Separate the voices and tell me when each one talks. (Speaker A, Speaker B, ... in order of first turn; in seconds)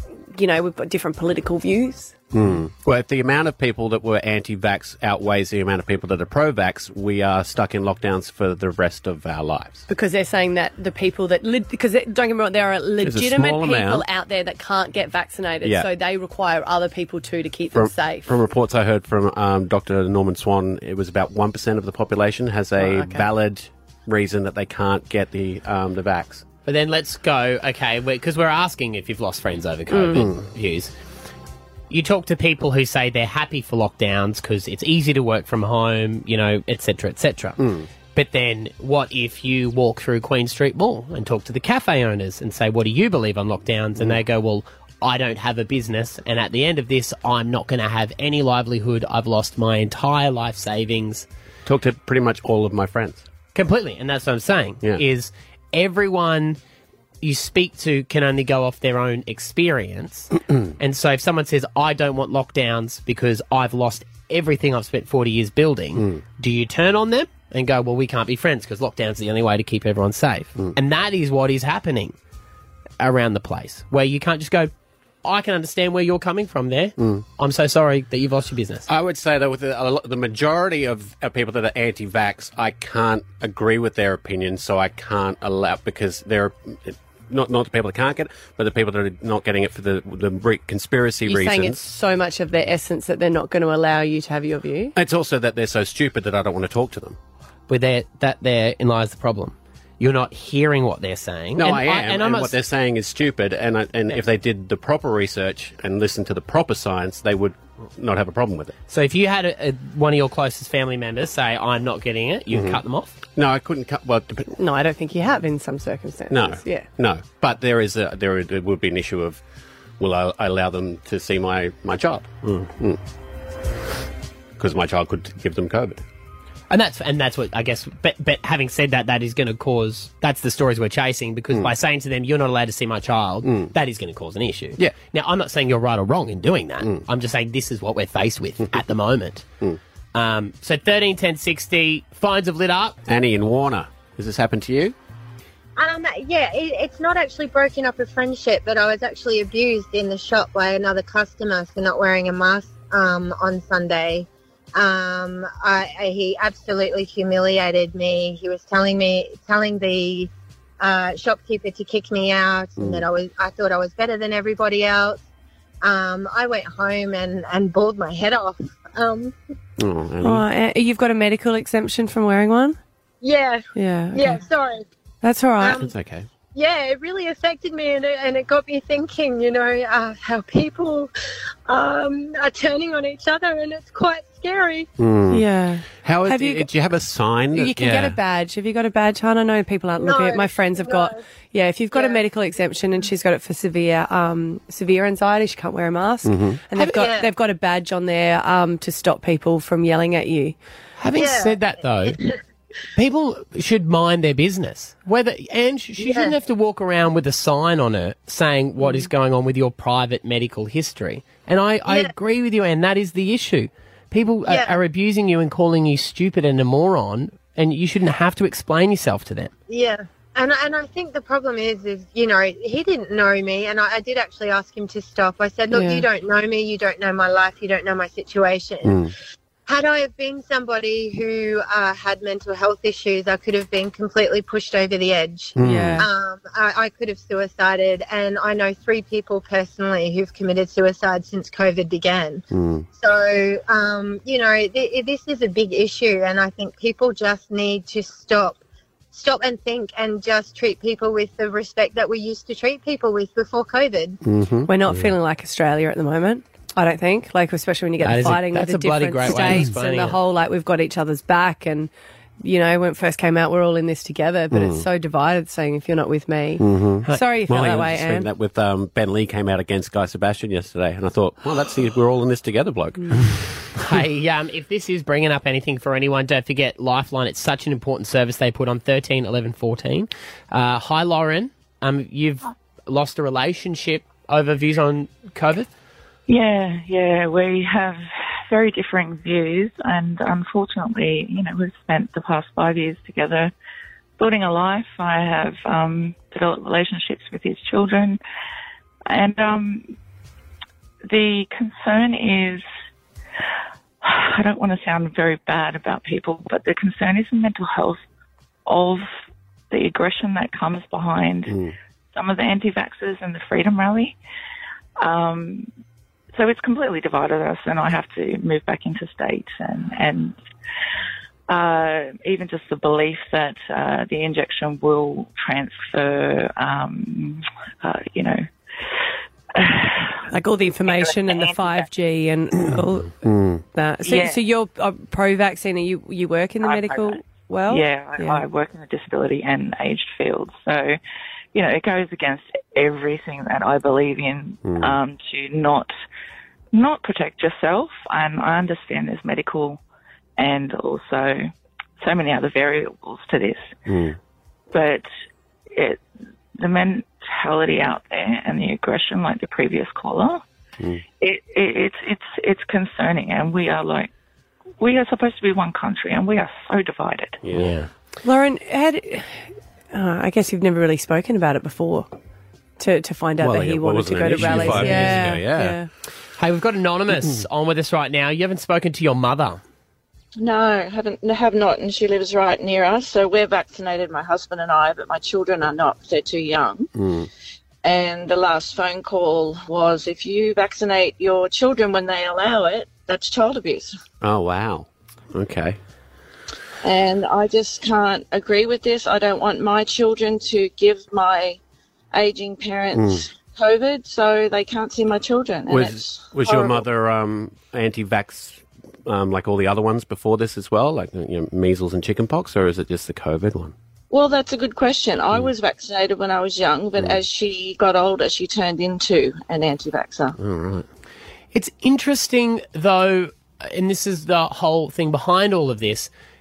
Speaker A: 0.3-2.2, 9.9-18.3, 22.8-23.3, 29.9-30.3, 91.3-94.9, 114.6-116.9, 170.2-172.8, 173.7-174.4, 175.2-175.9, 185.3-186.7, 187.5-200.6, 225.7-226.1, 235.6-236.1, 254.7-261.9, 262.4-268.3, 330.3-338.4, 368.2-372.1, 372.8-375.9
Speaker B: 2.3-9.8, 13.0-14.1, 17.7-26.4, 37.6-37.9, 51.6-53.2, 66.0-66.2, 77.0-77.2, 78.9-91.8, 95.0-97.2, 101.6-108.8, 112.5-112.8, 113.3-114.5, 116.3-119.4, 120.0-123.0, 124.6-126.0, 133.4-133.7, 143.1-144.9, 162.8-163.0, 169.8-170.4, 175.7-176.3, 185.0-185.4, 186.0-188.2, 196.2-196.6, 228.8-229.1, 235.6-236.1, 242.5-242.9, 254.2-255.1, 264.5-264.9, 266.6-273.6, 311.5-311.7, 332.7-333.6, 344.6-345.0, 353.9-354.2, 367.4-367.9, 373.4-375.8, 386.9-387.3, 394.2-395.8, 402.9-403.3, 405.7-413.7, 420.4-420.9
Speaker C: 26.6-30.9, 31.9-37.6, 38.1-51.3, 53.5-56.6, 57.2-72.2, 73.0-74.7, 75.2-78.9, 97.7-102.6, 108.9-113.2, 126.7-139.5, 140.1-143.0, 196.8-197.1, 201.0-202.2, 202.9-219.5, 258.0-260.2, 273.7-285.7, 367.5-367.9, 374.4-375.4, 376.4-379.6, 421.5-426.1
Speaker D: 145.8-165.2, 165.8-169.4, 173.2-174.8, 175.6-175.9, 176.5-181.1, 181.7-184.9, 190.0-191.2, 191.9-192.2, 196.9-197.3, 201.1-202.3, 206.0-206.3, 211.9-212.1, 214.5-214.7, 219.7-229.1, 229.7-248.6, 249.1-254.2
Speaker E: 286.3-293.5, 294.2-298.2, 299.1-299.9, 301.1-302.6, 304.0-308.0, 308.7-309.1, 309.7-311.6, 312.1-314.2, 315.0-315.7, 316.4-320.4, 321.5-328.4, 329.6-330.2, 330.9-331.8, 334.0-334.4, 336.6-341.0, 341.5-345.9, 346.7-349.8, 350.4-353.7, 354.7-355.1, 355.7-356.0, 356.6-360.4, 361.2-364.1, 364.8-367.4
Speaker F: 380.4-386.9, 387.8-393.9, 396.8-401.6, 402.1-406.9, 414.1-420.4